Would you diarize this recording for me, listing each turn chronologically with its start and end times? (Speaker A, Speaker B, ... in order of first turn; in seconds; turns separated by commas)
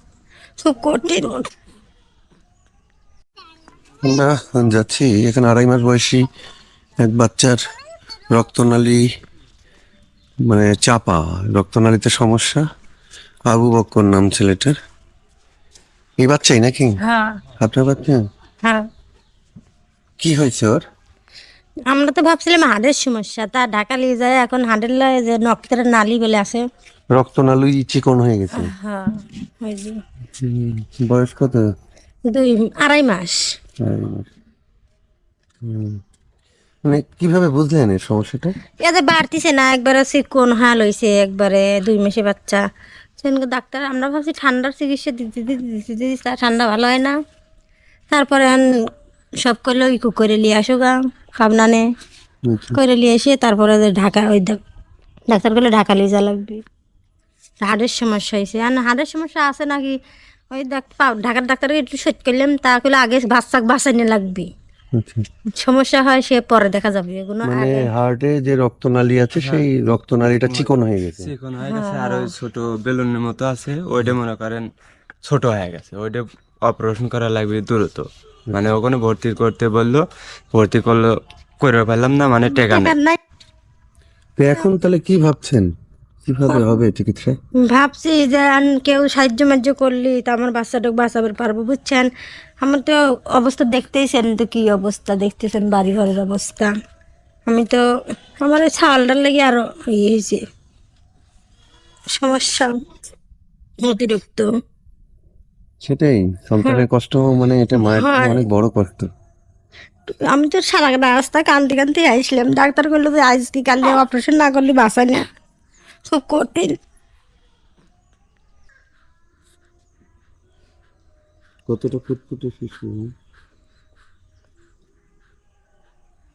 Speaker A: 0.6-1.5, Speaker B: 4.0-6.2, Speaker B: 7.0-7.6, Speaker B: 8.3-9.0, Speaker B: 10.5-12.6, Speaker B: 13.5-14.8, Speaker B: 16.2-17.0, Speaker A: 17.0-17.4, Speaker B: 17.6-18.2, Speaker B: 20.2-20.8, Speaker A: 21.9-26.6, Speaker B: 27.1-28.7, Speaker A: 28.6-30.0, Speaker B: 30.4-31.6, Speaker A: 32.3-33.4, Speaker B: 33.8-34.2, Speaker B: 35.6-36.0, Speaker B: 36.9-38.5, Speaker A: 38.8-42.6, Speaker A: 43.2-47.1, Speaker A: 48.1-48.6, Speaker A: 49.4-51.8, Speaker B: 52.5-52.8, Speaker A: 52.7-54.6, Speaker A: 55.3-56.6, Speaker A: 57.6-60.0, Speaker A: 60.5-64.5, Speaker B: 65.0-65.2, Speaker A: 65.5-67.9, Speaker B: 67.4-71.3, Speaker C: 69.4-69.7, Speaker C: 70.4-74.7, Speaker A: 71.6-72.3, Speaker C: 75.2-82.9, Speaker A: 82.5-83.2, Speaker B: 84.4-85.7, Speaker B: 86.2-87.4, Speaker A: 87.6-92.1, Speaker A: 92.6-96.7, Speaker A: 97.5-97.8, Speaker A: 98.4-100.4, Speaker A: 102.1-102.7, Speaker A: 103.8-104.5, Speaker B: 105.8-109.1, Speaker A: 108.0-108.4, Speaker A: 110.1-115.2, Speaker A: 116.1-116.8, Speaker B: 121.7-123.1